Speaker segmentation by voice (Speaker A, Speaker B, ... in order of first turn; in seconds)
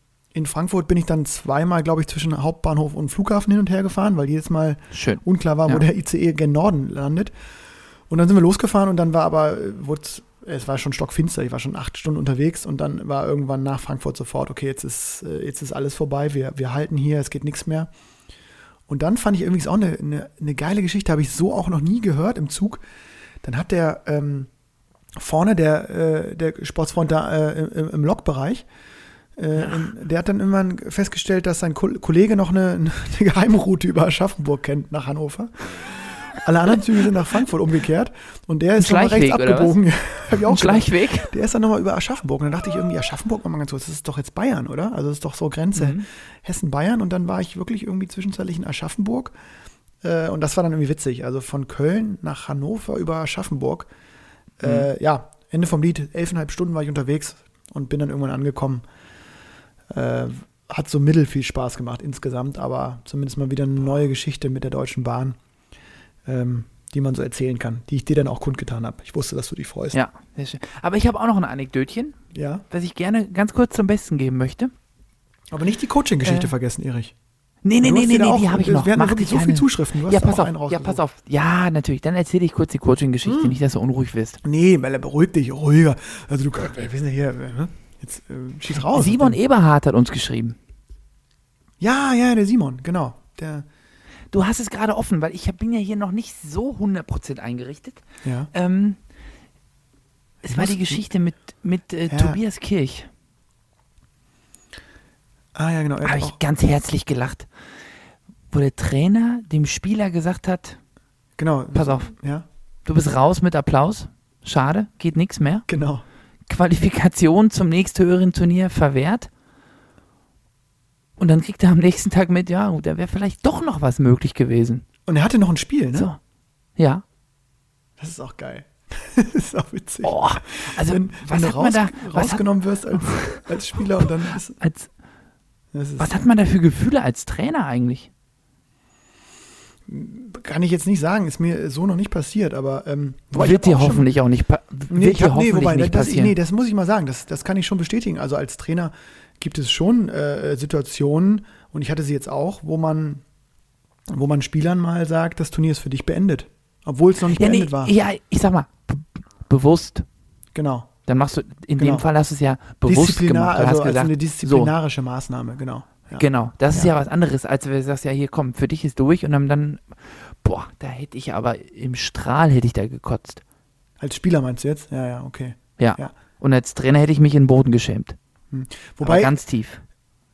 Speaker A: 0.3-7.3, 8.1-17.9, 18.9-22.8, 23.4-24.5, 25.1-28.7, 29.4-49.3, 50.0-53.9, 54.6-58.8, 59.9-65.4, 66.2-70.0, 72.3-72.6, 75.5-77.1, 77.8-81.0, 83.2-83.6, 84.4-89.4, 91.8-93.7, 98.2-98.5, 100.4-101.0, 102.1-102.4, 105.5-106.4, 111.4-112.4, 115.7-116.0, 125.1-126.1, 128.0-134.6, 135.7-136.2, 139.9-144.1, 144.9-153.2, 154.1-157.9, 160.5-160.9, 161.8-162.1, 162.8-166.9, 174.0-176.1, 178.5-179.3
Speaker B: 4.9-5.8, 38.8-39.8, 40.4-41.4, 45.7-46.0, 54.6-54.9, 69.9-72.2, 72.7-74.7, 76.2-76.5, 77.6-84.4, 88.9-90.6, 94.3-98.0, 98.5-99.0, 100.4-103.1, 106.0-107.5, 108.5-110.8, 111.7-112.1, 112.8-115.7, 116.5-119.3, 121.2-124.8, 126.8-127.0, 130.0-133.4, 134.6-134.9, 136.0-138.1, 143.3-146.3, 157.3-160.0, 161.1-164.7, 166.2-173.4, 175.8-178.2, 179.0-179.8